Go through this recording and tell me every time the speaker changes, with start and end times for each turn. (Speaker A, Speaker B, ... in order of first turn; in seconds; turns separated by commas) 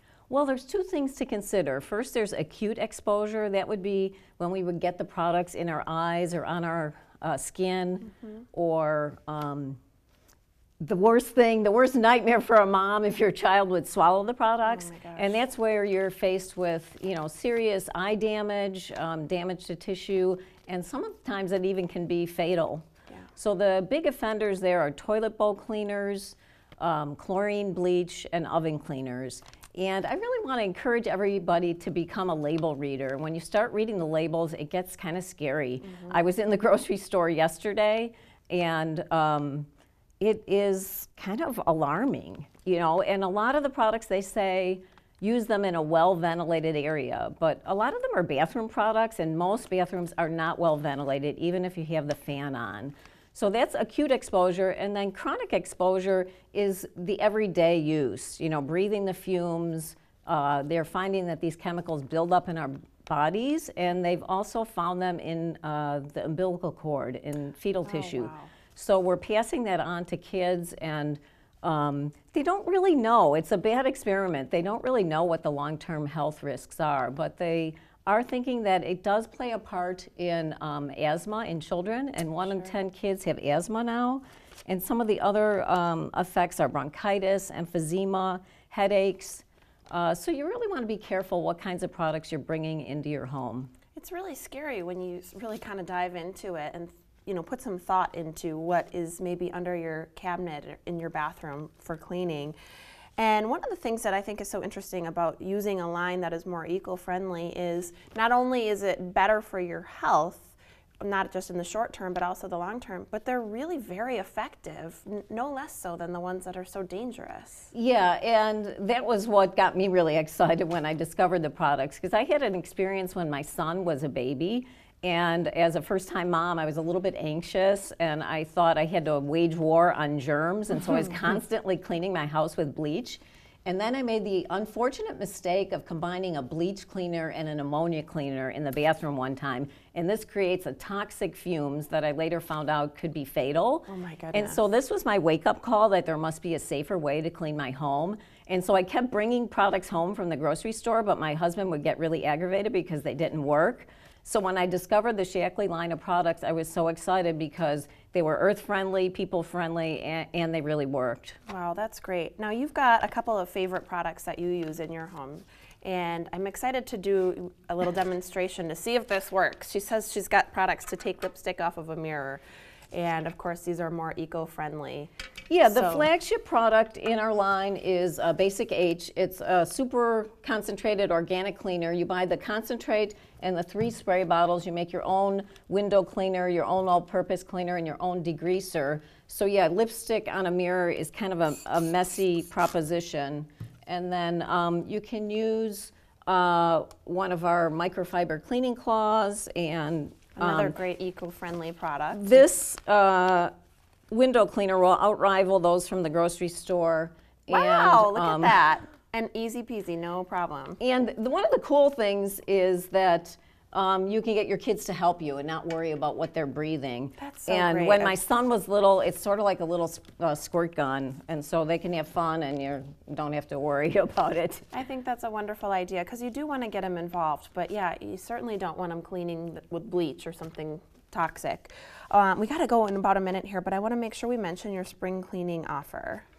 Speaker A: 0.3-9.8, Speaker A: 10.8-22.9, Speaker B: 14.7-15.4, Speaker A: 23.4-39.7, Speaker B: 35.8-36.2, Speaker A: 40.2-93.7, Speaker B: 67.8-68.5, Speaker B: 94.0-102.6, Speaker B: 103.2-117.7, Speaker A: 117.7-161.4, Speaker B: 143.9-144.6, Speaker B: 161.5-172.4, Speaker B: 172.9-175.1, Speaker A: 175.5-200.8, Speaker B: 175.6-176.1, Speaker B: 200.4-202.5, Speaker A: 202.1-203.5, Speaker A: 204.1-208.6, Speaker B: 207.5-210.8, Speaker A: 210.8-224.7, Speaker B: 217.2-218.2, Speaker B: 224.7-236.3